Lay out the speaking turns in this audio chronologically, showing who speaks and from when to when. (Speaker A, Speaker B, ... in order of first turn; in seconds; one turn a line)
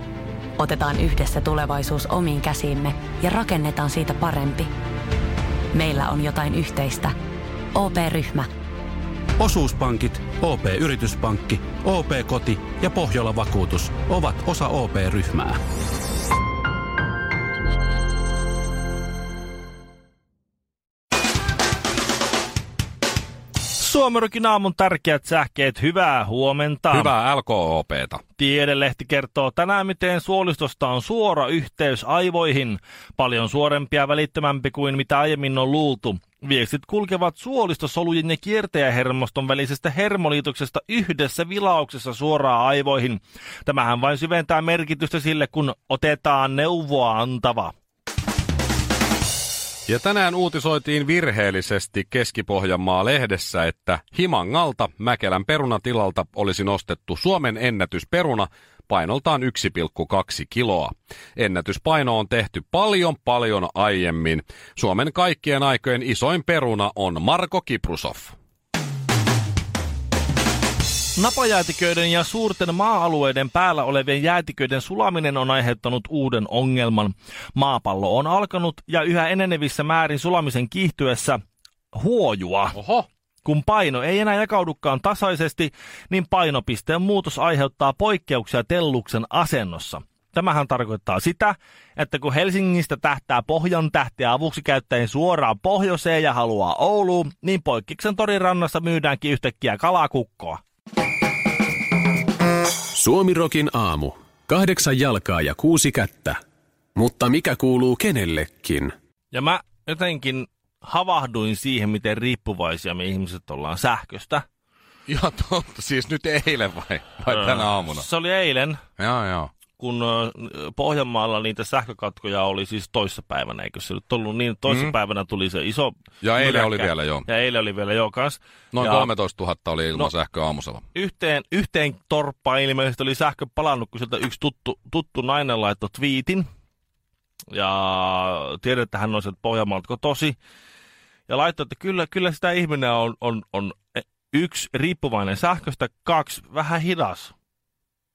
Speaker A: 0.6-4.7
Speaker A: 5.7-7.1
Speaker A: 7.7-8.5
Speaker B: 9.4-15.6
Speaker C: 23.8-27.1
Speaker D: 26.9-28.2
Speaker C: 28.4-47.7
Speaker D: 49.9-68.3
Speaker C: 71.1-81.4
Speaker C: 81.9-82.8
Speaker D: 82.7-83.1
Speaker C: 83.4-100.6
Speaker E: 103.0-106.3
Speaker E: 107.0-108.8
Speaker C: 109.3-114.4
Speaker D: 115.1-118.1
Speaker C: 117.3-118.8
Speaker D: 119.0-119.5
Speaker C: 119.8-129.1
Speaker D: 124.7-125.0
Speaker D: 126.2-127.3
Speaker D: 128.7-130.8
Speaker C: 130.9-136.5
Speaker C: 137.5-140.3
Speaker C: 141.3-147.3